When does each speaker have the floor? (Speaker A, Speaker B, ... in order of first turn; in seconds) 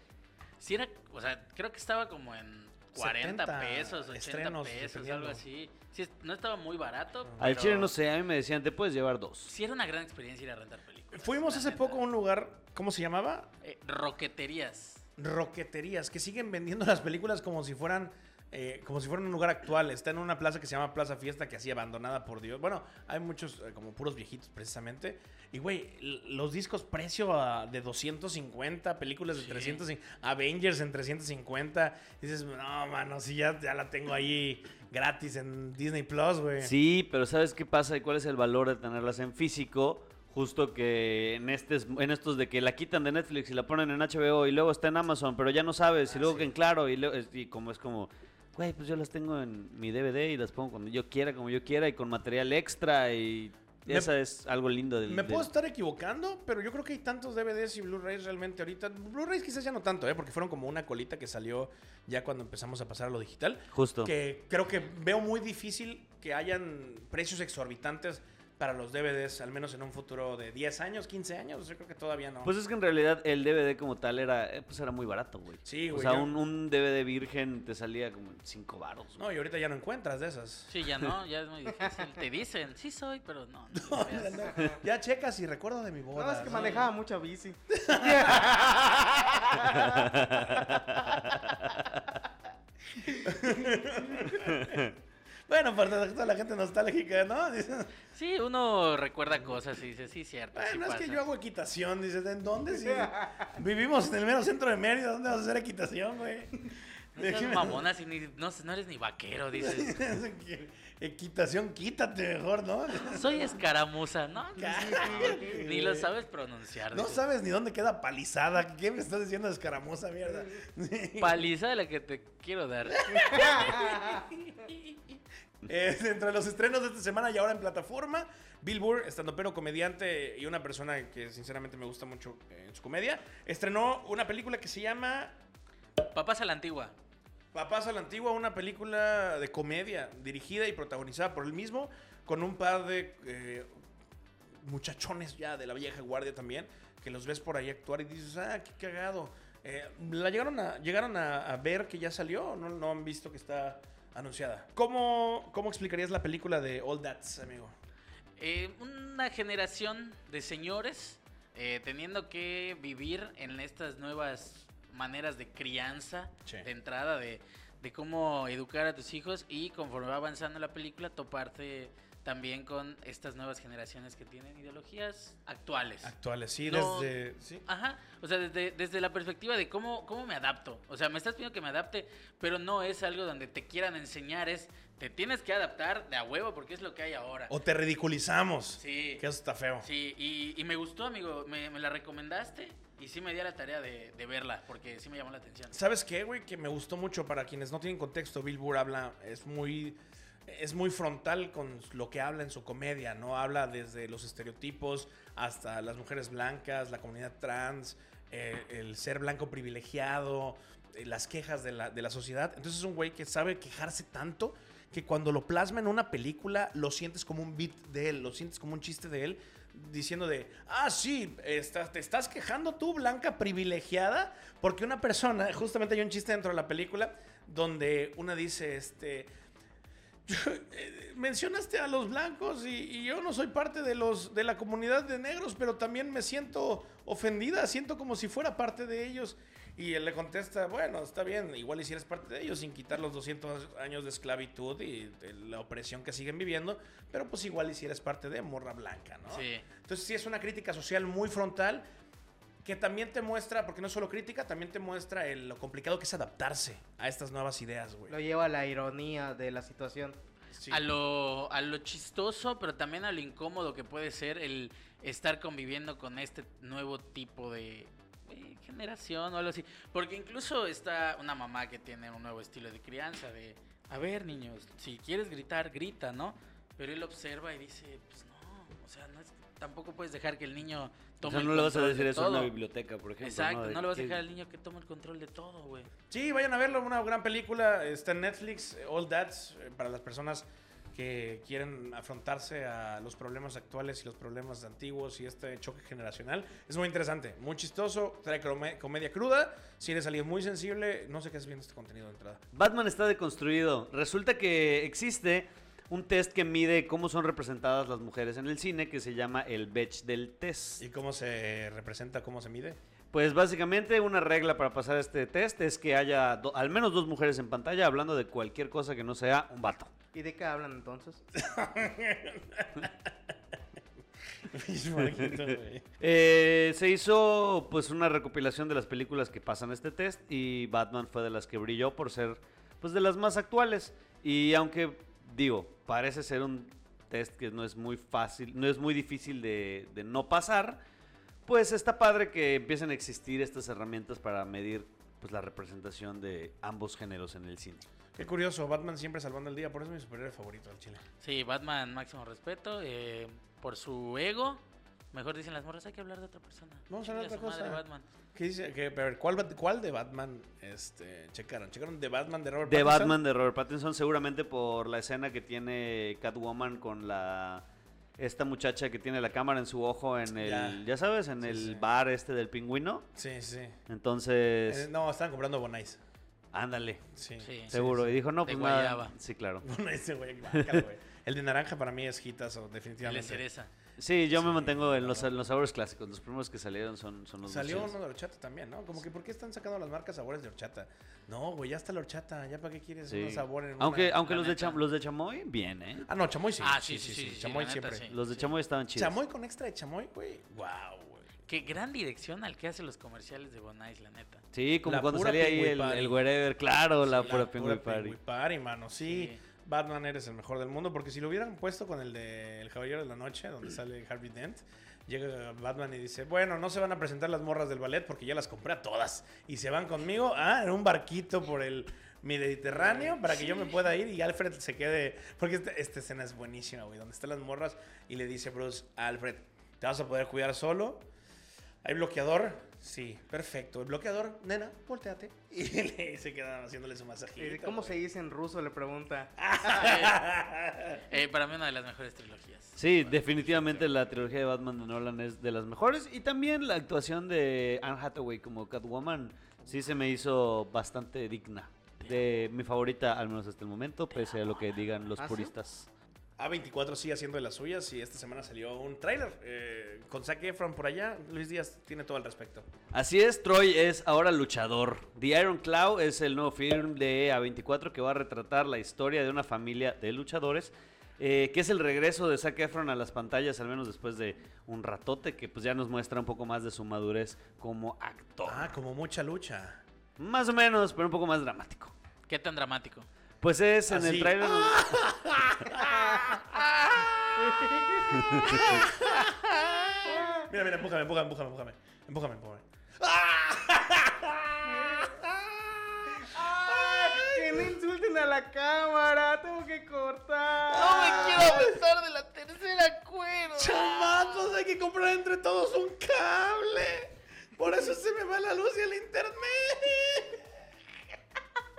Speaker A: 0.6-7.9, 9.4-12.0, 13.6-15.0, 29.3-29.8, 80.7-84.8, 86.4-86.9, 98.1-101.2, 107.2-110.0, 113.1-117.2, 121.2-123.7, 136.0-136.9, 158.4-176.1, 176.7-177.1, 177.7-187.5, 188.8-189.2, 189.8-195.8, 249.3-249.7, 260.7-282.5, 283.2-285.9, 351.2-358.1, 377.4-377.7, 378.4-379.1, 383.0-383.7, 394.2-394.8, 396.6-398.5, 401.5-404.4, 409.0-409.4, 439.7-440.2, 441.1-443.9, 482.3-483.1, 500.7-504.4
Speaker B: 2.9-5.4, 11.1-13.5, 15.2-36.7, 46.1-46.5, 55.0-72.5, 75.6-76.3, 79.2-80.7, 83.7-86.8, 87.7-89.6, 93.1-94.9, 95.5-97.9, 100.5-107.8, 109.5-113.5, 114.5-116.1, 116.9-121.4, 122.9-135.3, 137.5-143.7, 144.6-157.7, 176.0-177.7, 187.5-189.9, 195.7-229.3, 230.2-251.8, 252.6-258.1, 260.5-260.8, 286.1-302.4, 310.8-312.8, 321.3-323.1, 324.4-325.9, 348.1-351.0, 356.9-357.8, 358.3-363.2, 370.4-370.8, 371.4-371.9, 373.1-373.8, 374.7-376.0, 377.1-378.1, 379.6-383.4, 384.3-385.3, 387.4-394.2, 396.1-398.1, 398.9-401.3, 404.8-406.2, 407.1-431.1, 431.8-438.0, 439.4-441.0, 456.4-462.7, 478.4-479.8, 483.9-497.7, 500.8-501.8, 503.5-510.4
Speaker C: 7.4-9.5, 36.6-55.5, 63.7-64.1, 72.4-79.2, 89.8-91.9, 94.5-94.9, 281.2-284.2, 302.5-310.8, 313.1-319.9, 325.0-340.8, 341.4-347.8, 362.6-367.6, 368.2-373.1, 373.9-374.9, 376.5-377.0, 377.7-379.7, 380.5-380.8, 384.0-387.9, 393.1-396.1, 398.1-399.2, 404.5-408.1, 442.8-455.9, 462.9-478.7, 480.2-481.9, 483.4-484.9, 488.2-488.8
Speaker D: 86.1-90.6, 102.7-103.4, 115.3-115.5, 123.3-124.3, 258.1-260.2, 320.1-321.2, 437.4-440.1, 455.2-455.5, 485.8-486.3, 487.4-488.6, 490.1-490.5, 494.8-495.1, 496.1-501.4